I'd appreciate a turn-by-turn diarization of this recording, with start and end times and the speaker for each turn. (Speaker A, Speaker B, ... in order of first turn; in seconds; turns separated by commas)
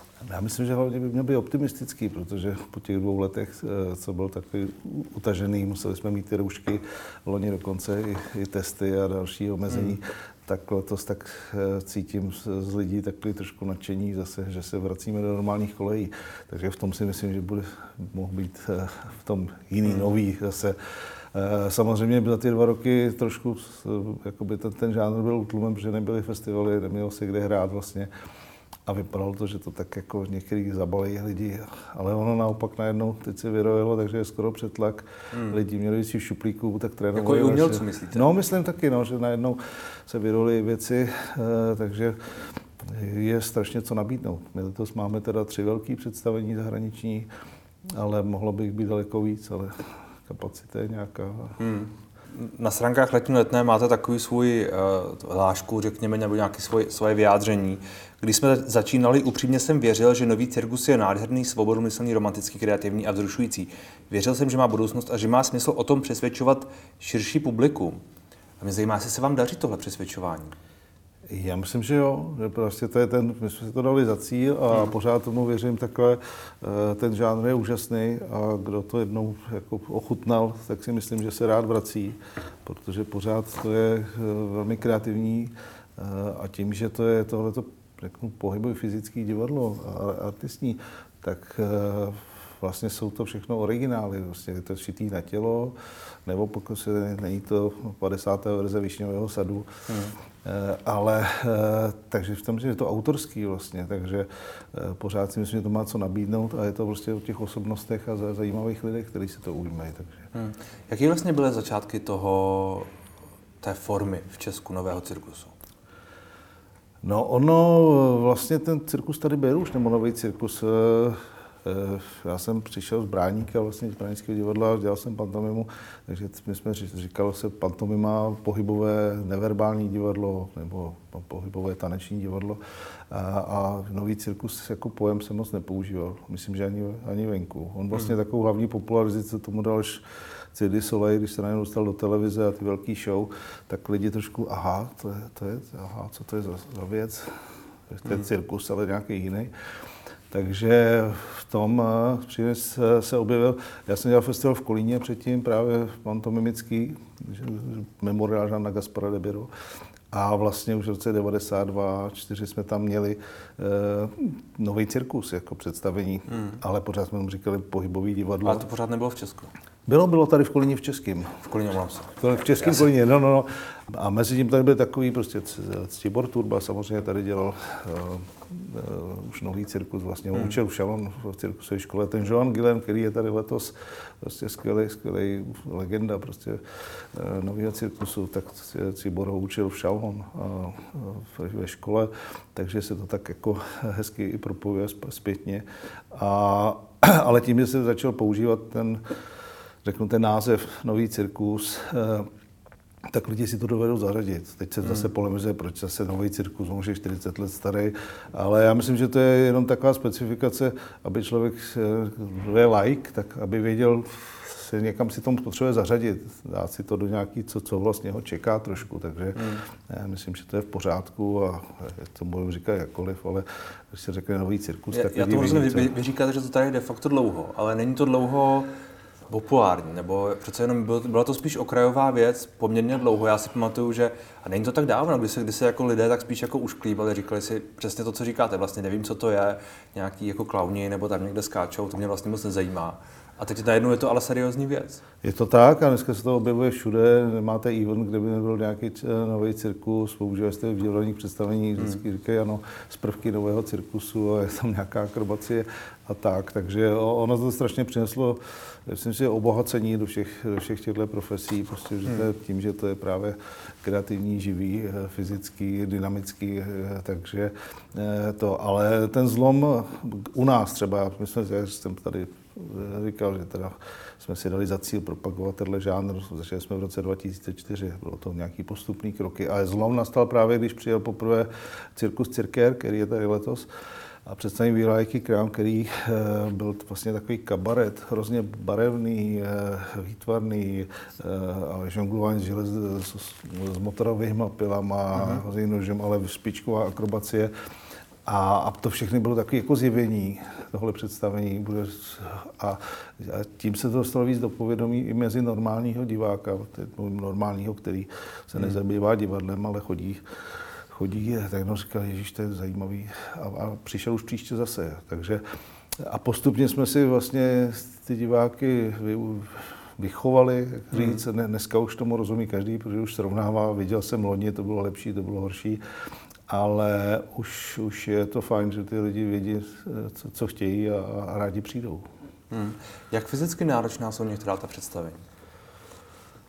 Speaker A: 0.3-20.8, Speaker B: 9.7-9.9, Speaker A: 21.3-28.1, Speaker A: 28.9-42.2, Speaker B: 35.3-35.6, Speaker B: 37.1-38.2, Speaker A: 42.8-47.3, Speaker A: 47.9-51.6, Speaker B: 51.6-68.0, Speaker B: 68.6-70.5, Speaker A: 71.3-95.7, Speaker A: 96.2-99.7, Speaker B: 99.9-100.1, Speaker A: 100.4-110.2, Speaker B: 110.3-112.9, Speaker B: 113.6-115.5, Speaker A: 117.0-132.6, Speaker A: 133.1-140.0, Speaker A: 140.5-149.5, Speaker A: 150.3-159.5, Speaker A: 160.1-168.7, Speaker B: 168.4-169.5, Speaker A: 169.8-171.4, Speaker B: 171.4-172.8, Speaker A: 172.2-186.6, Speaker A: 187.1-199.0, Speaker A: 199.8-202.3, Speaker A: 203.1-226.0, Speaker B: 219.3-219.6, Speaker B: 224.9-228.7, Speaker B: 229.3-245.0, Speaker A: 245.2-283.7, Speaker A: 284.2-297.5, Speaker B: 295.1-295.4, Speaker A: 298.2-310.2, Speaker A: 310.9-315.4, Speaker A: 316.0-325.8, Speaker B: 320.9-321.2, Speaker A: 326.5-332.0, Speaker B: 332.5-335.2